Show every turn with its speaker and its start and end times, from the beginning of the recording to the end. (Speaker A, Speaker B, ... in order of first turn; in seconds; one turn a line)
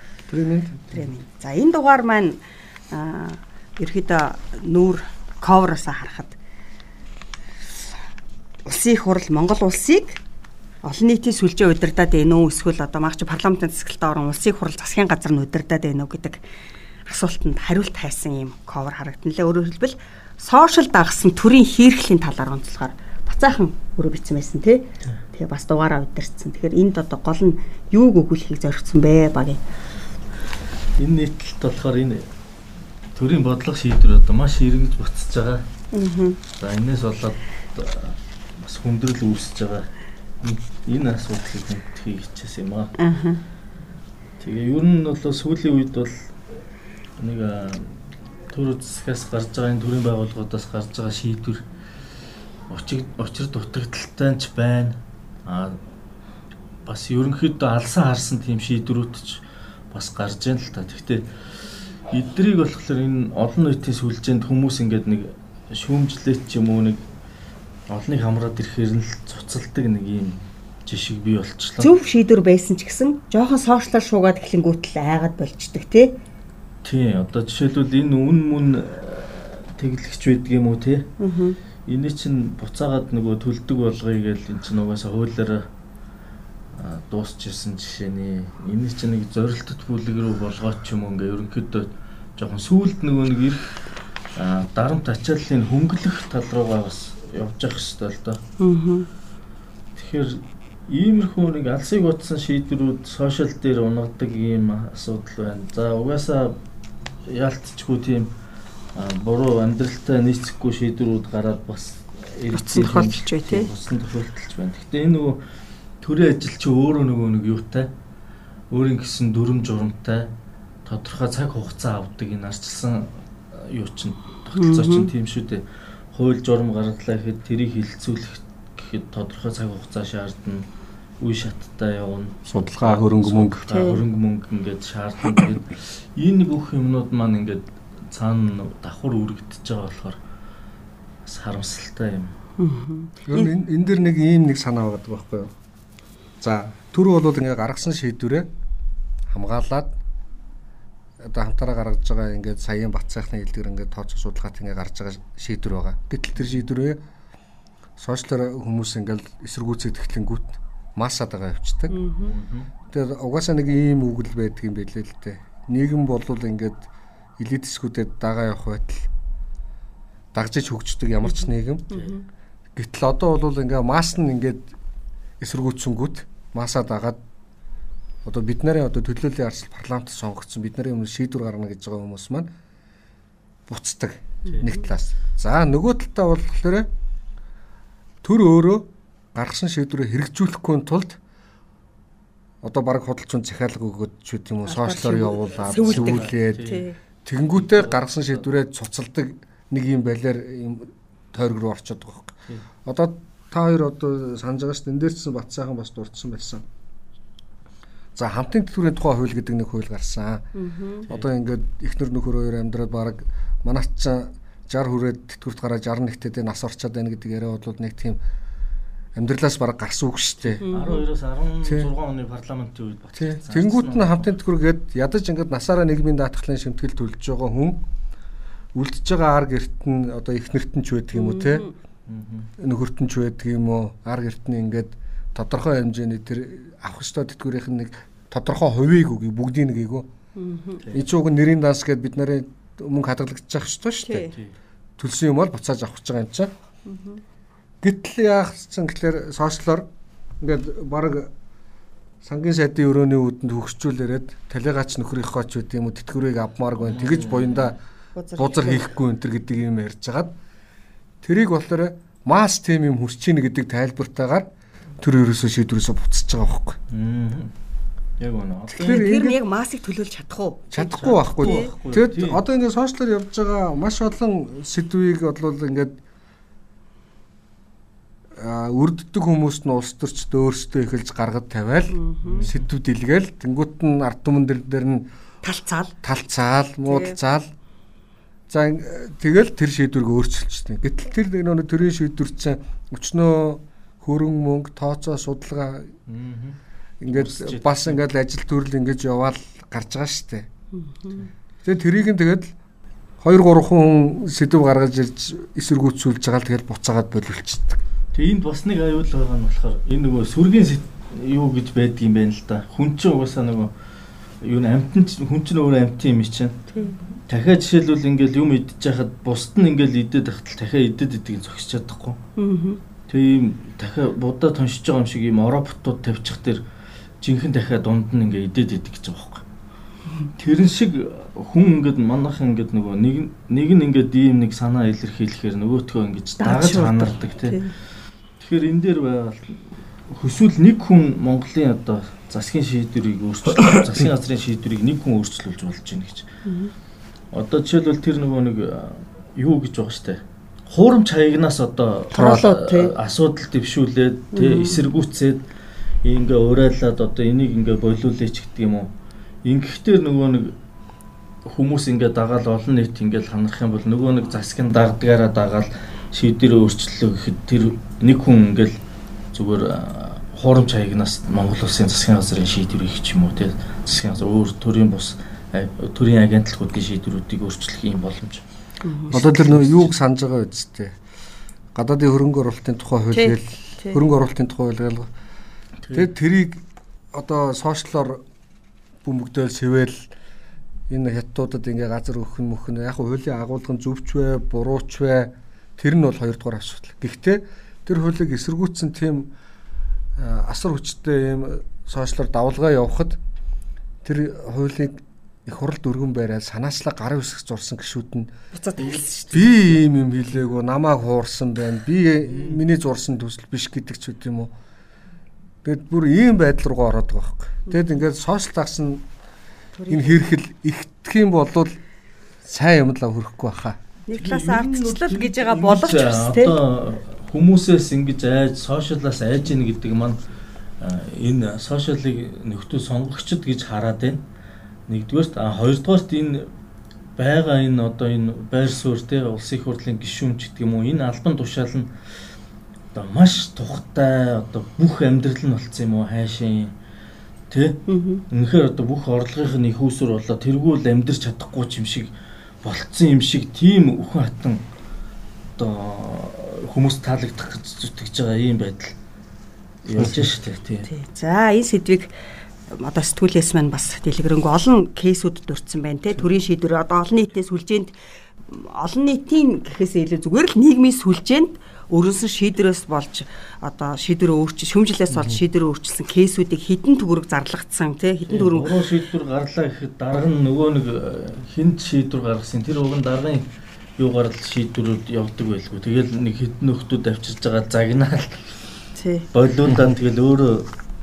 Speaker A: 0.3-0.8
Speaker B: 0.9-6.4
Speaker B: 8.7-10.2
Speaker B: 10.8-16.4
Speaker B: 17.1-29.6
Speaker C: 31.0-32.3
Speaker C: 33.1-35.6
Speaker B: 35.9-36.4
Speaker C: 36.6-39.9
Speaker C: 40.4-42.9
Speaker B: 43.0-43.4
Speaker C: 44.4-46.4
Speaker C: 47.2-51.6
Speaker C: 52.7-55.8
Speaker C: 56.9-61.3
Speaker C: 62.1-67.0
Speaker C: 67.9-71.9
Speaker B: 71.8-76.2
Speaker C: 76.8-81.1
Speaker B: 81.2-81.6
Speaker C: 81.9-85.7
Speaker C: 86.8-93.8
Speaker C: 94.3-98.4
Speaker B: 98.6-99.1
Speaker C: 100.0-106.6
Speaker C: 107.3-108.3
Speaker C: 109.0-115.4
Speaker B: 112.5-113.7
Speaker C: 116.0-117.9
Speaker C: 118.7-120.3
Speaker C: 120.8-130.7
Speaker B: 124.5-125.1
Speaker C: 131.2-140.2
Speaker A: 132.5-133.6
Speaker B: 133.7-134.0
Speaker C: 141.3-142.3
Speaker B: 142.6-143.5
Speaker A: 143.3-145.5
Speaker A: 146.4-148.5
Speaker A: 149.3-150.0
Speaker A: 151.2-157.0
Speaker A: 158.0-162.0
Speaker B: 161.9-162.3
Speaker C: 162.2-162.7
Speaker A: 162.9-166.9
Speaker A: 167.4-169.1
Speaker A: 170.3-171.9
Speaker B: 171.9-172.2
Speaker A: 172.8-174.7
Speaker A: 175.4-177.2
Speaker A: 178.2-182.5
Speaker A: 183.7-186.9
Speaker B: 184.4-184.8
Speaker A: 188.2-191.2
Speaker A: 192.6-196.7
Speaker B: 194.7-197.0
Speaker C: 195.7-196.8
Speaker A: 197.2-206.6
Speaker C: 197.5-198.4
Speaker A: 208.2-210.5
Speaker B: 210.6-211.1
Speaker A: 211.1-218.2
Speaker A: 219.2-220.7
Speaker C: 220.5-224.3
Speaker B: 220.6-221.1
Speaker A: 223.2-227.8
Speaker A: 228.8-231.7
Speaker B: 231.1-231.7
Speaker C: 232.1-232.5
Speaker A: 232.6-240.1
Speaker B: 240.4-240.8
Speaker A: 240.9-244.3
Speaker B: 244.0-244.4
Speaker A: 245.0-246.5
Speaker B: 246.9-247.2
Speaker A: 247.8-249.9
Speaker A: 250.4-251.3
Speaker A: 252.2-257.8
Speaker C: 256.9-257.7
Speaker B: 258.2-259.0
Speaker A: 258.4-260.3
Speaker A: 261.2-264.5
Speaker A: 265.0-266.8
Speaker C: 266.9-267.5
Speaker C: 268.2-269.1
Speaker A: 268.7-269.4
Speaker B: 268.8-271.7
Speaker A: 270.7-276.0
Speaker C: 270.8-272.4
Speaker A: 278.4-285.1
Speaker B: 281.9-282.5
Speaker C: 282.2-282.7
Speaker B: 285.4-285.9
Speaker A: 286.0-287.5
Speaker B: 286.9-287.2
Speaker A: 288.5-295.9
Speaker C: 296.1-298.0
Speaker A: 297.0-300.5
Speaker B: 300.8-301.3
Speaker A: 301.6-302.5
Speaker A: 303.2-307.8
Speaker C: 308.1-313.7
Speaker C: 314.4-316.6
Speaker B: 316.7-317.0
Speaker C: 317.3-322.2
Speaker B: 322.4-322.8
Speaker C: 323.1-326.6
Speaker C: 327.2-329.4
Speaker C: 330.4-337.7
Speaker B: 336.4-337.7
Speaker C: 338.4-346.3
Speaker B: 346.4-346.7
Speaker C: 347.3-355.4
Speaker B: 352.1-352.9
Speaker B: 354.3-354.8
Speaker C: 356.0-358.9
Speaker C: 359.4-360.6
Speaker C: 361.5-368.8
Speaker C: 369.3-378.4
Speaker B: 378.8-379.2
Speaker A: 379.1-381.0
Speaker C: 379.1-379.9
Speaker A: 381.8-385.1
Speaker B: 383.1-384.0
Speaker A: 385.9-388.2
Speaker A: 389.0-390.1
Speaker A: 390.9-399.3
Speaker A: 400.2-403.2
Speaker A: 404.0-408.3
Speaker B: 408.5-409.6
Speaker A: 409.3-414.5
Speaker C: 412.2-412.6
Speaker A: 415.6-419.1
Speaker B: 419.8-420.3
Speaker A: 419.9-421.8
Speaker A: 422.4-423.8
Speaker B: 424.1-426.6
Speaker C: 424.2-430.2
Speaker C: 430.8-434.2
Speaker C: 434.9-436.5
Speaker C: 437.2-441.9
Speaker C: 442.9-446.7
Speaker C: 447.5-452.1
Speaker B: 447.9-448.2
Speaker C: 452.6-454.6
Speaker C: 455.6-458.9
Speaker C: 459.8-460.9
Speaker A: 460.0-460.3
Speaker B: 460.9-462.1
Speaker B: 462.7-467.9
Speaker B: 468.5-478.8
Speaker C: 478.3-483.5
Speaker C: 484.0-488.5
Speaker B: 488.9-489.3
Speaker C: 489.3-490.7
Speaker A: 489.7-489.9